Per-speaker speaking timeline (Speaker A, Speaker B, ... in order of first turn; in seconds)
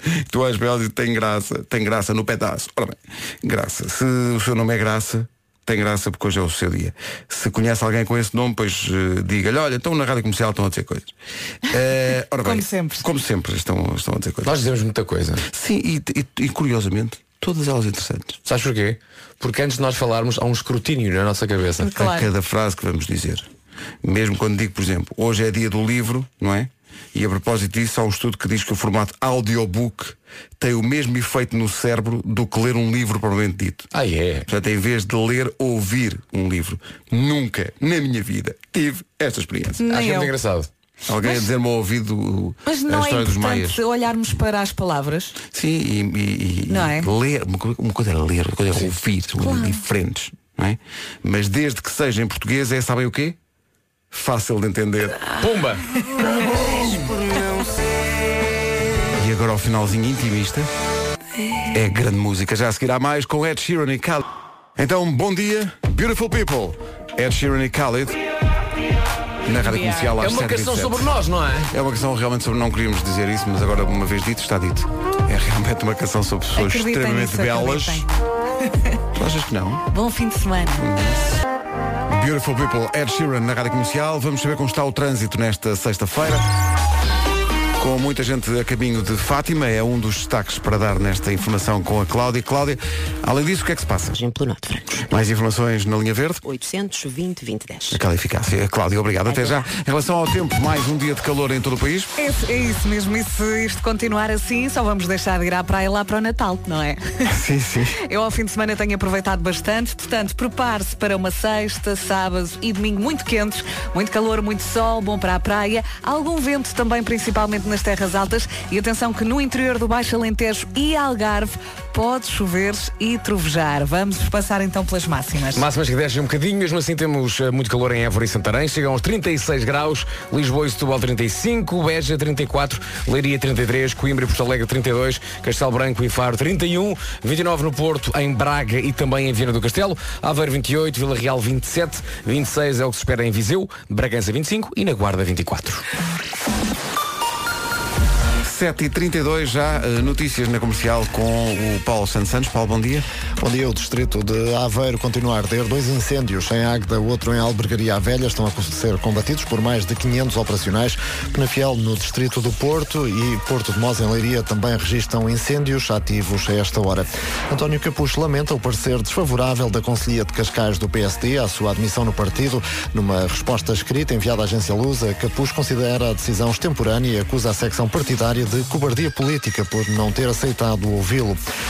Speaker A: 0.3-11.1, 11.7-14.6, 15.5-18.4, 21.9-23.5, 24.0-33.9, 34.5-39.8, 41.1-43.8, 45.5-53.4, 54.1-55.3, 56.1-57.7, 59.1-60.7, 61.7-64.2, 64.8-68.2, 69.5-71.1, 71.7-78.0, 79.2-79.8, 80.8-81.4, 82.1-86.5, 87.8-94.1, 95.1-96.4, 97.9-102.1, 107.3-108.0, 148.4-153.1
Speaker B: 12.4-13.0, 21.8-22.3, 39.8-40.3, 42.6-45.4, 46.7-47.1, 49.4-49.8, 69.6-70.1, 76.5-78.0, 79.9-80.9, 102.2-107.3, 108.0-125.7
Speaker C: 14.4-15.4, 18.5-21.9, 33.9-34.5, 39.9-40.7, 55.4-55.9, 70.2-71.7, 125.5-145.8
Speaker D: 94.1-95.0, 96.5-98.0, 99.2-99.7
Speaker E: 153.4-181.4